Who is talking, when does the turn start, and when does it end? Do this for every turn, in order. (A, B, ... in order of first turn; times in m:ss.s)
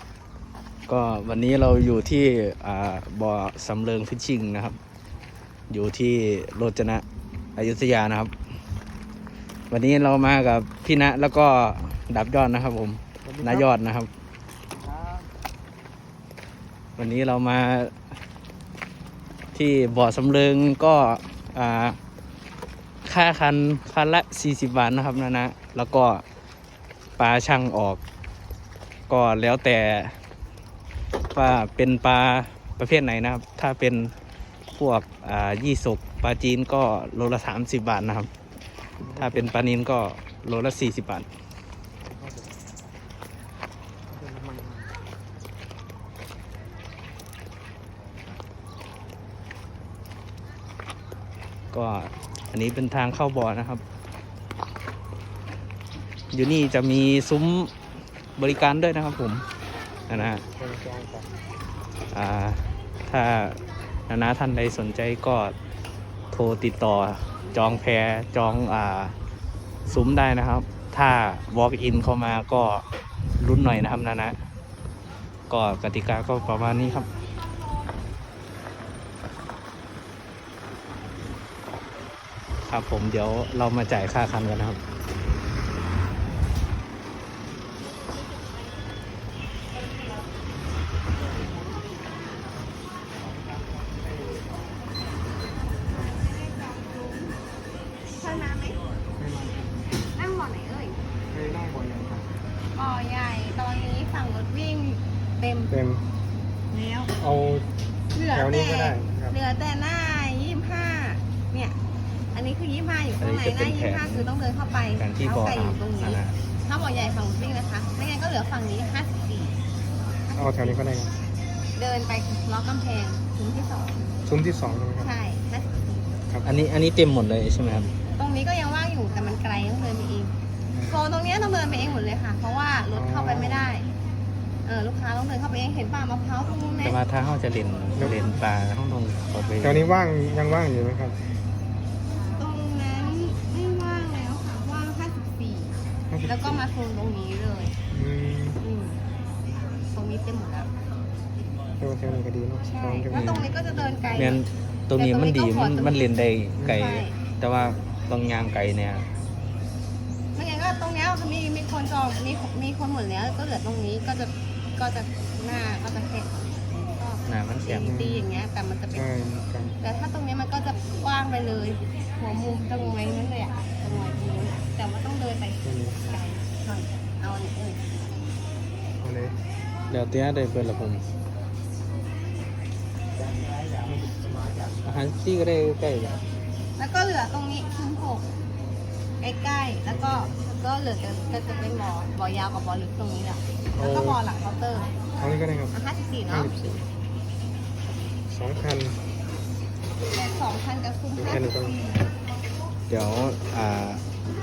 0:00.9-0:04.8 A
0:05.7-0:07.0 A
0:07.6-0:08.3 A
0:09.7-0:14.1 A
0:13.2-0:13.7 B
0:17.0-0:17.9 A
0:19.5-0:22.0 A
0:23.0-0:26.2 A
0:27.2-0:28.0 A
0:29.1-0:30.2 A
0:31.3-0:34.1 A
0:34.8-0:38.3 A
0:39.0-0:39.6 B
0:39.1-0:41.3 A
0:42.1-0:42.6 B
0:44.1-0:44.9 B
0:51.7-0:53.8 A
0:56.3-0:57.7 A
0:58.4-0:59.4 A
1:00.1-1:00.4 A
1:00.1-1:01.3 B
1:02.1-1:05.6 A
1:06.3-1:09.2 A
1:09.9-1:12.8 A
1:13.4-1:14.4 A
1:15.5-1:17.1 A
1:22.7-1:24.8 A
1:33.2-1:34.4 B
1:35.3-1:37.4 C
1:38.2-1:38.8 C
1:39.2-1:39.9 B
1:40.1-1:41.1 C
1:41.3-1:42.3 B
1:42.7-1:45.7 C
1:45.7-1:46.0 B
1:46.7-1:47.1 C
1:47.2-1:47.7 B
1:48.1-1:51.8 C
1:48.3-1:49.4 B
1:52.3-1:59.6 C
1:53.2-1:54.3 A
1:55.0-1:56.4 A
2:00.3-2:00.8 C
2:00.4-2:01.1 B
2:01.8-2:04.2 C
2:04.3-2:05.1 B
2:05.0-2:06.2 C
2:06.4-2:07.9 A
2:08.2-2:13.9 C
2:12.9-2:13.7 B
2:14.6-2:17.0 C
2:16.8-2:19.9 A
2:18.0-2:18.4 B
2:19.6-2:21.2 B
2:22.3-2:27.8 C
2:26.1-2:26.6 B
2:27.9-2:28.6 B
2:28.6-2:29.0 C
2:29.9-2:30.7 C
2:31.8-2:34.0 B
2:32.7-2:34.4 C
2:33.1-2:33.5 A
2:34.1-2:39.1 A
2:35.0-2:36.1 C
2:36.6-2:37.0 B
2:36.6-2:37.2 C
2:40.4-2:49.1 C
2:47.3-2:47.9 A
2:47.8-2:48.3 B
2:48.9-2:49.8 B
2:49.8-2:57.9 C
2:53.8-2:54.8 B
2:55.6-2:56.0 B
2:59.0-2:59.4 B
2:59.9-3:01.0 A
3:03.8-3:04.3 B
3:04.8-3:06.2 A
3:06.8-3:08.3 C
3:09.2-3:15.0 C
3:09.9-3:10.4 B
3:13.8-3:14.2 B
3:15.2-3:15.8 B
3:15.7-3:16.6 C
3:16.3-3:16.9 B
3:18.3-3:19.0 B
3:20.1-3:22.1 C
3:21.1-3:21.8 B
3:22.9-3:24.0 A